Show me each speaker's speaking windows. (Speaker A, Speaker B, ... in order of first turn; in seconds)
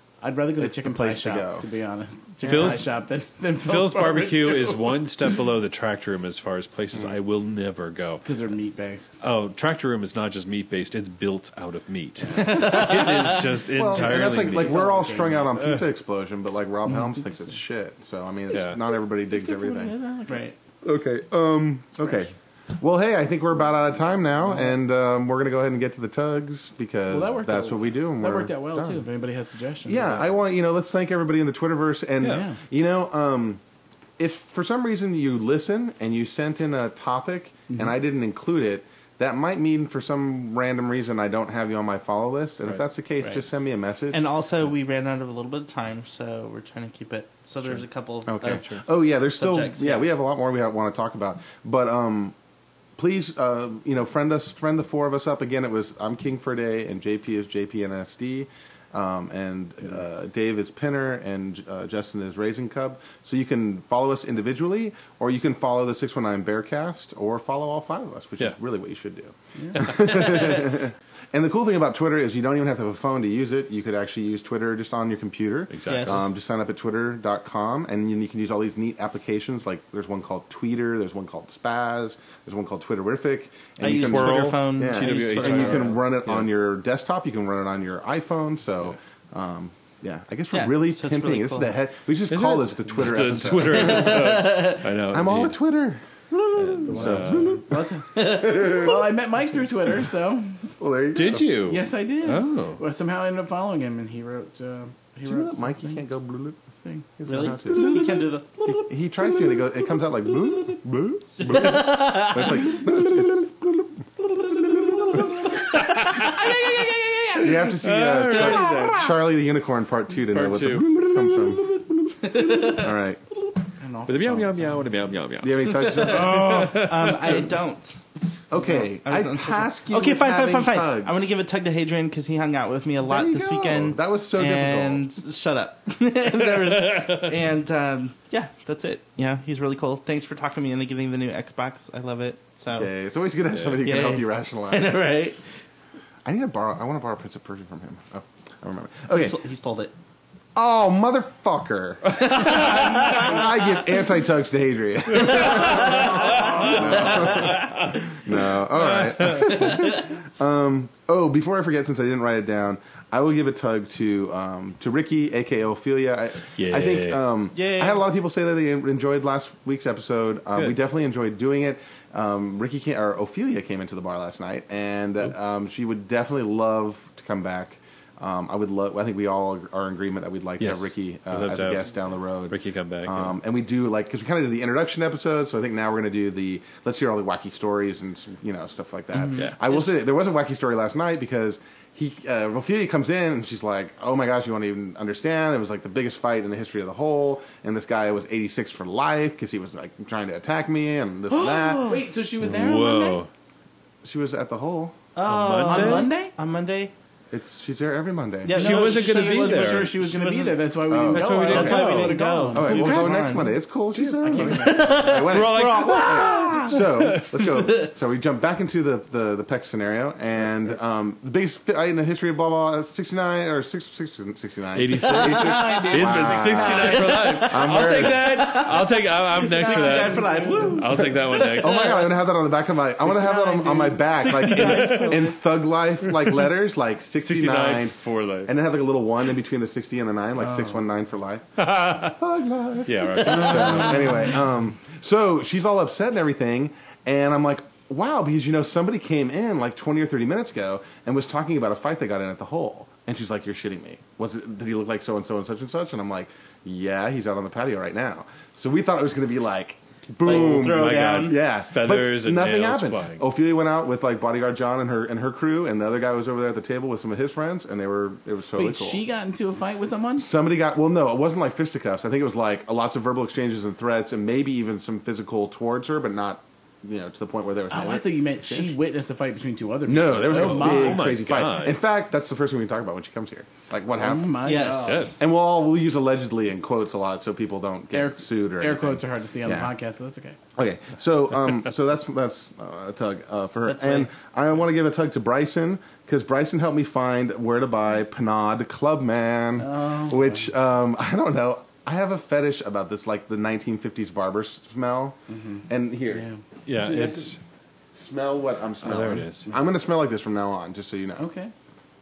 Speaker A: 0.2-5.0, 8.2-9.2, 13.9-15.6, 16.9-17.3, 19.3-20.5, 27.1-30.3, 32.2-32.6, 69.5-70.0, 96.8-100.8, 101.7-106.0, 106.8-107.1, 116.4-117.4, 123.8-124.9, 126.3-126.8, 201.8-203.2, 205.6-206.3, 208.5-213.0, 214.2-214.9, 225.1-227.5, 229.3-230.9, 232.7-234.1, 240.4-240.8, 268.6-270.3, 277.7-281.1, 284.0-285.3, 287.9-290.4, 299.6-300.4, 305.3-306.4, 311.2-311.5
Speaker B: 0.6-1.6, 2.4-2.8, 13.7-19.9, 20.8-29.0, 29.9-33.6, 34.2-44.2, 48.3-52.3, 53.0-94.4, 95.1-99.0, 100.8-101.5, 105.2-106.5, 107.2-115.4, 117.3-123.2, 125.4-127.4, 128.5-131.3, 133.0-135.0, 142.7-145.0, 146.2-149.4, 150.5-201.9, 204.0-204.9, 207.3-208.6, 210.9-211.9, 212.5-228.5, 231.0-269.0, 270.2-278.8, 279.9-284.5, 285.2-289.7, 290.6-305.2, 305.7-307.3, 307.9-311.2
Speaker C: 2.4-2.9, 3.6-8.2, 9.2-15.8, 18.5-18.8, 48.4-48.8, 75.7-76.3, 83.8-86.5, 92.3-95.5, 96.5-97.5, 101.1-102.8, 115.0-119.1, 120.3-122.7, 124.1-127.4, 136.8-137.3, 155.3-158.1, 158.6-159.9, 166.6-167.2, 180.6-181.9, 182.5-183.3, 189.3-189.9, 202.4-203.3, 205.2-206.1, 208.5-210.0, 211.1-212.2, 214.0-217.5, 224.7-232.0, 234.2-235.3, 236.1-236.4, 237.2-238.5, 241.6-242.1, 242.8-244.3, 260.2-263.2, 280.3-281.8, 284.9-285.1, 306.6-307.4, 308.8-309.5
Speaker D: 12.4-13.4, 20.3-20.5, 44.1-48.8, 49.3-50.1, 75.9-76.3, 83.8-86.0, 90.5-91.7, 93.6-94.9, 107.2-108.9, 111.4-112.8, 118.3-118.8, 122.2-122.9, 125.6-128.0, 128.6-142.9, 143.8-145.4, 149.1-149.9, 152.1-153.6, 155.4-157.7, 167.5-168.0, 201.3-202.0, 205.1-206.9, 208.4-210.5, 211.1-213.6, 214.4-216.8, 227.1-232.2, 234.2-235.4, 243.3-243.6, 260.2-261.4, 284.4-285.1, 293.7-294.1